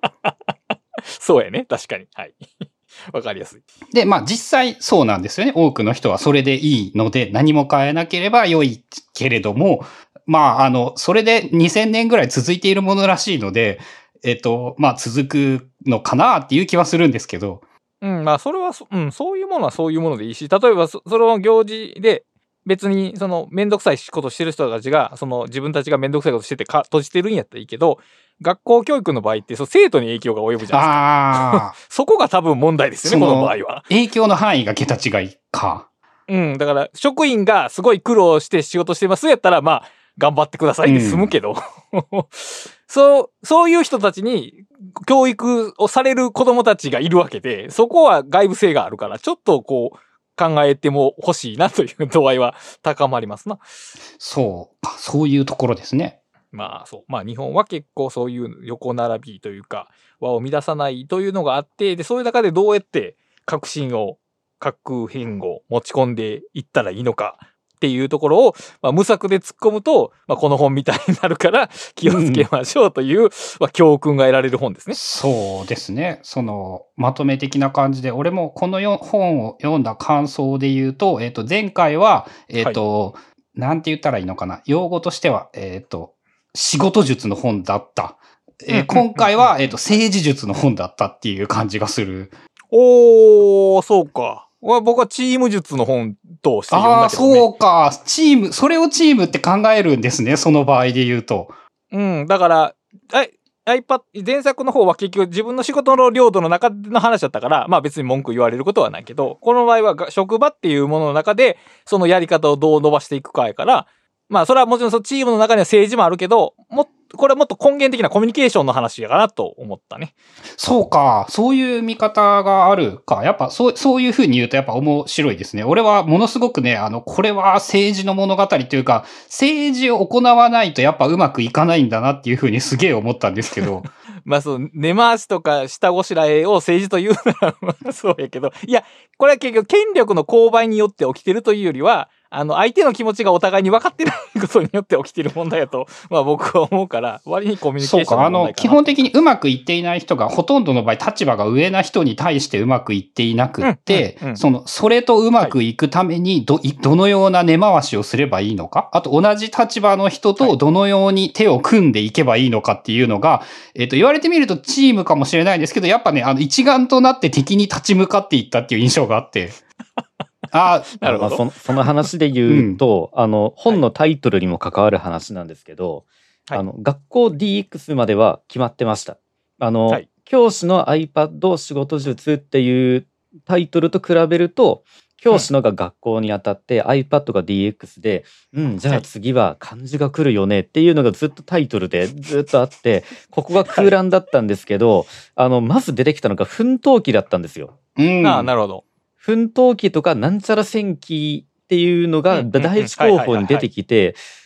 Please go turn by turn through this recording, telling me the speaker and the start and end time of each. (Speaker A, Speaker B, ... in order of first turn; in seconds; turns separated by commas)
Speaker A: 0.2-3.6, Speaker B: 3.9-17.6, Speaker A: 18.0-33.9, Speaker B: 30.7-31.7, Speaker B: 33.0-35.9, Speaker A: 36.3-53.8, Speaker B: 40.8-41.3, Speaker B: 54.2-56.2, Speaker A: 56.5-75.0, Speaker C: 72.1-72.4, Speaker B: 74.9-92.3, Speaker A: 88.7-90.0, Speaker A: 92.7-97.5, Speaker B: 96.7-101.5, Speaker A: 101.9-120.1, Speaker B: 120.6-133.9, Speaker A: 134.2-149.1, Speaker B: 147.8-169.6, Speaker A: 153.6-154.4, Speaker B: 170.5-171.0, Speaker A: 171.0-171.5, Speaker C: 171.0-197.7, Speaker B: 172.4-172.8, Speaker A: 193.7-193.9, Speaker B: 198.0-198.5, Speaker A: 198.2-198.8, Speaker C: 199.2-204.2, Speaker A: 202.3-203.7